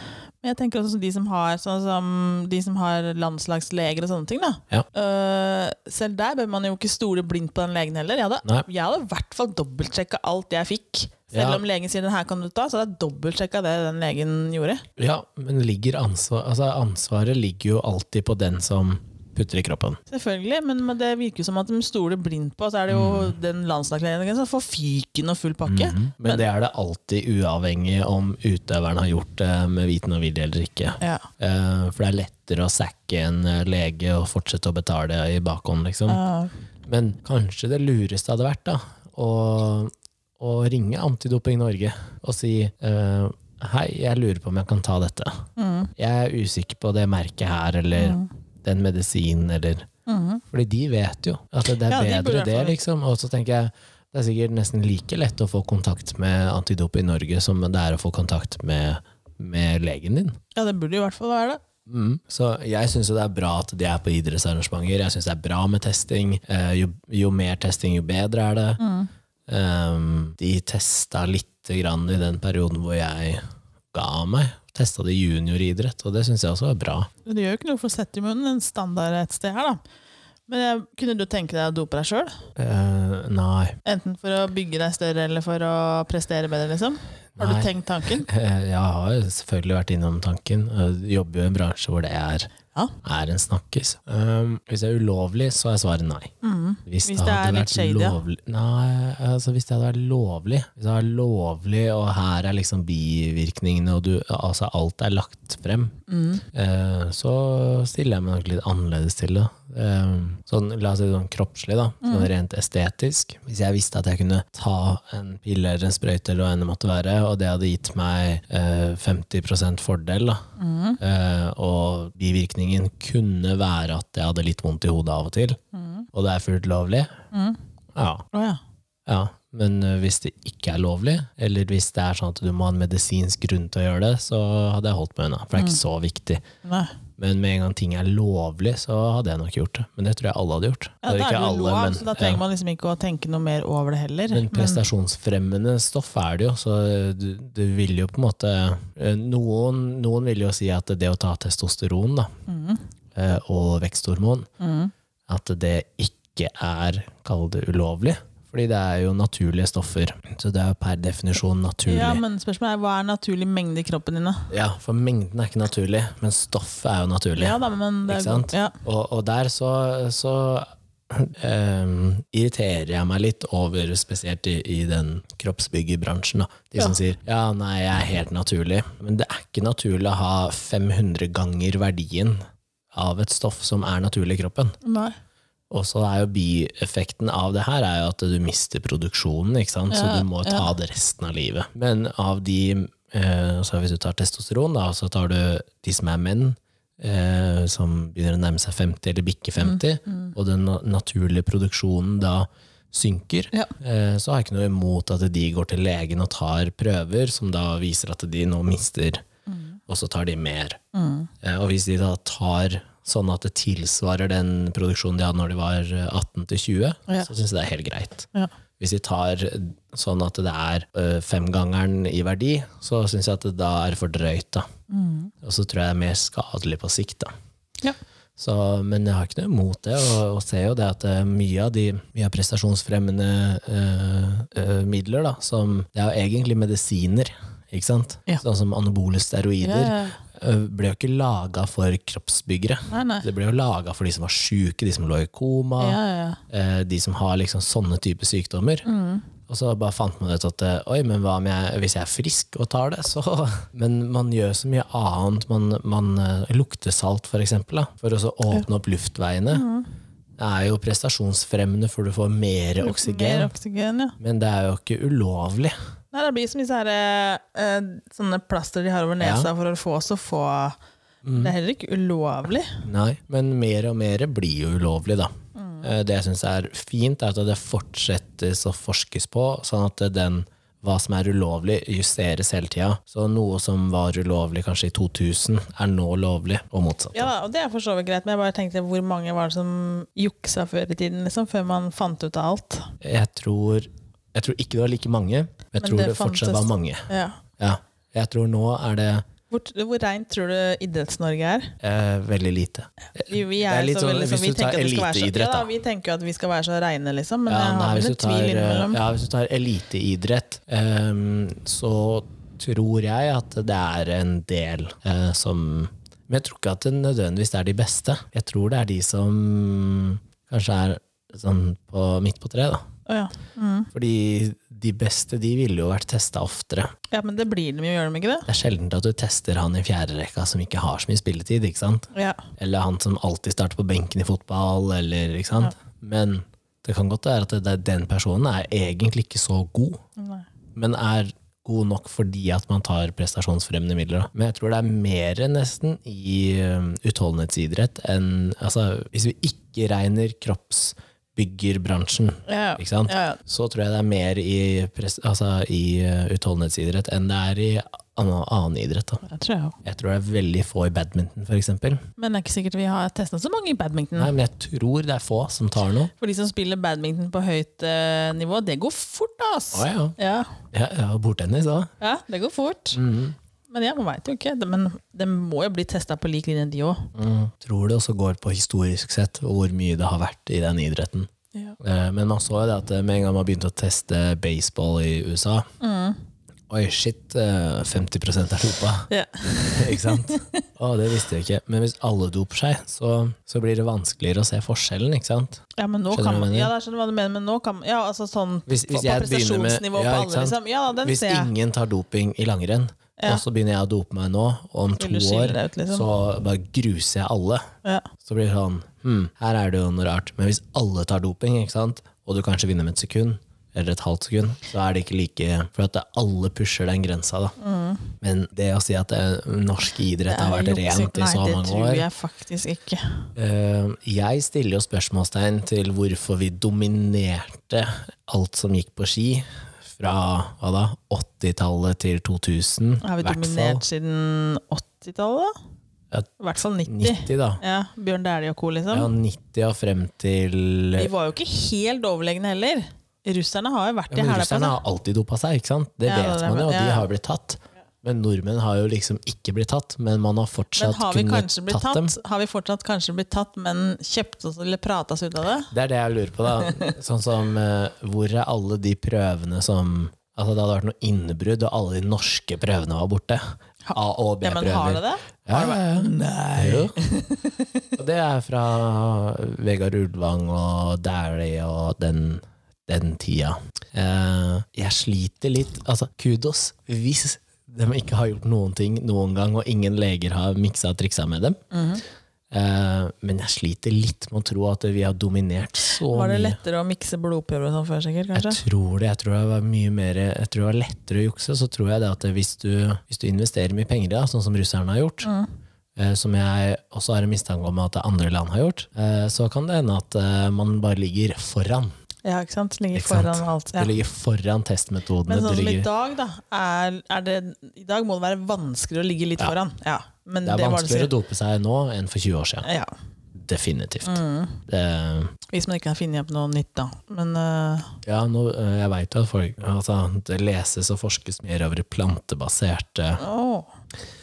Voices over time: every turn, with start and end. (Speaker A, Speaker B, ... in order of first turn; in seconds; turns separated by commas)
Speaker A: 0.4-14.8, Speaker B: 11.3-11.6, Speaker B: 15.0-20.0, Speaker A: 20.1-26.4, Speaker B: 22.9-23.4, Speaker B: 25.7-36.2, Speaker A: 31.0-31.3, Speaker A: 36.1-36.5, Speaker B: 36.9-45.4, Speaker A: 45.6-45.9, Speaker B: 46.0-49.9, Speaker A: 48.0-48.3, Speaker A: 50.1-50.4, Speaker B: 50.5-60.4, Speaker A: 51.8-52.8, Speaker A: 60.5-61.6, Speaker B: 61.9-68.8, Speaker A: 68.8-69.1, Speaker B: 69.5-73.4, Speaker B: 73.9-77.1, Speaker A: 77.2-79.8, Speaker A: 80.5-82.4, Speaker B: 82.6-83.8, Speaker A: 83.8-88.3, Speaker B: 87.4-92.5, Speaker B: 93.0-96.3, Speaker A: 96.4-98.2, Speaker B: 96.9-106.0, Speaker A: 106.1-106.4, Speaker B: 106.5-120.4, Speaker A: 112.0-112.3, Speaker A: 120.6-121.0, Speaker B: 121.0-125.6, Speaker A: 125.7-126.1, Speaker B: 126.1-127.1, Speaker A: 127.3-127.6, Speaker B: 128.0-128.2, Speaker A: 128.3-128.6, Speaker B: 129.1-136.4, Speaker A: 136.6-136.9, Speaker B: 137.2-142.4, Speaker A: 141.0-144.8, Speaker B: 144.3-152.3, Speaker A: 152.5-152.8, Speaker B: 153.2-154.5, Speaker A: 154.6-154.9, Speaker B: 155.3-162.2, Speaker A: 161.9-164.5, Speaker B: 164.5-182.4, Speaker A: 167.4-168.8, Speaker B: 182.9-184.8, Speaker A: 184.8-185.2, Speaker B: 185.7-209.2, Speaker A: 189.9-190.7, Speaker A: 199.6-200.3, Speaker A: 209.5-209.8, Speaker B: 209.9-210.8, Speaker A: 210.9-211.3, Speaker B: 211.4-218.3, Speaker B: 218.8-224.7, Speaker A: 224.9-225.3, Speaker B: 225.4-227.3, Speaker B: 228.4-248.9, Speaker A: 239.6-240.2, Speaker A: 242.9-243.3, Speaker A: 245.8-246.4, Speaker A: 248.8-249.3, Speaker B: 249.5-259.7, Speaker A: 259.5-259.9, Speaker B: 260.4-263.5, Speaker A: 262.8-264.2, Speaker B: 264.2-265.8, Speaker A: 266.1-270.8, Speaker B: 269.2-269.5, Speaker B: 271.2-271.5, Speaker A: 271.3-272.9, Speaker B: 272.9-275.3, Speaker A: 275.6-275.9, Speaker B: 275.8-287.3, Speaker A: 287.1-292.9, Speaker B: 293.0-297.1, Speaker A: 295.8-297.4, Speaker B: 297.6-299.2, Speaker A: 299.5-301.8, Speaker B: 301.8-305.7, Speaker A: 303.2-309.0, Speaker B: 307.5-322.8, Speaker A: 323.1-323.9, Speaker B: 323.9-326.9, Speaker A: 327.1-328.5, Speaker B: 328.5-340.0, Speaker A: 332.1-332.4, Speaker A: 340.2-340.5, Speaker B: 340.8-359.2, Speaker A: 352.5-353.4, Speaker A: 359.2-359.8, Speaker B: 359.8-362.0, Speaker A: 362.2-364.3, Speaker B: 364.2-366.1, Speaker A: 366.2-370.6, Speaker B: 369.7-370.2, Speaker B: 370.7-371.9, Speaker A: 372.0-373.0, Speaker B: 372.9-373.4, Speaker A: 373.7-377.1, Speaker B: 377.1-381.3, Speaker B: 381.8-385.7, Speaker A: 385.8-386.2, Speaker B: 386.7-389.1, Speaker A: 389.1-390.6, Speaker B: 389.7-396.7, Speaker A: 395.8-401.5, Speaker B: 398.7-407.7, Speaker A: 405.0-406.1, Speaker A: 407.8-408.1, Speaker B: 408.2-417.6, Speaker A: 417.6-418.1, Speaker B: 418.2-422.1, Speaker A: 420.3-423.3, Speaker B: 423.4-433.8, Speaker A: 433.0-435.5, Speaker A: 436.4-439.1, Speaker B: 436.9-437.6, Speaker B: 438.9-441.1, Speaker A: 441.0-444.8, Speaker B: 444.1-452.2, Speaker A: 446.1-447.1, Speaker A: 450.8-455.7, Speaker B: 455.7-463.4, Speaker A: 456.6-456.9, Speaker A: 463.9-467.9, Speaker B: 463.9-467.0, Speaker B: 468.0-481.6, Speaker A: 481.7-482.0, Speaker B: 482.5-486.6, Speaker A: 485.8-488.6, Speaker B: 488.4-495.3, Speaker A: 495.2-495.5, Speaker B: 496.0-501.9, Speaker A: 502.2-503.9, Speaker B: 502.9-505.9, Speaker A: 505.3-511.1, Speaker B: 510.4-512.7, Speaker A: 512.6-512.9, Speaker B: 513.4-515.3, Speaker A: 514.0-514.6, Speaker A: 515.5-518.0, Speaker B: 518.0-523.2, Speaker A: 523.2-523.7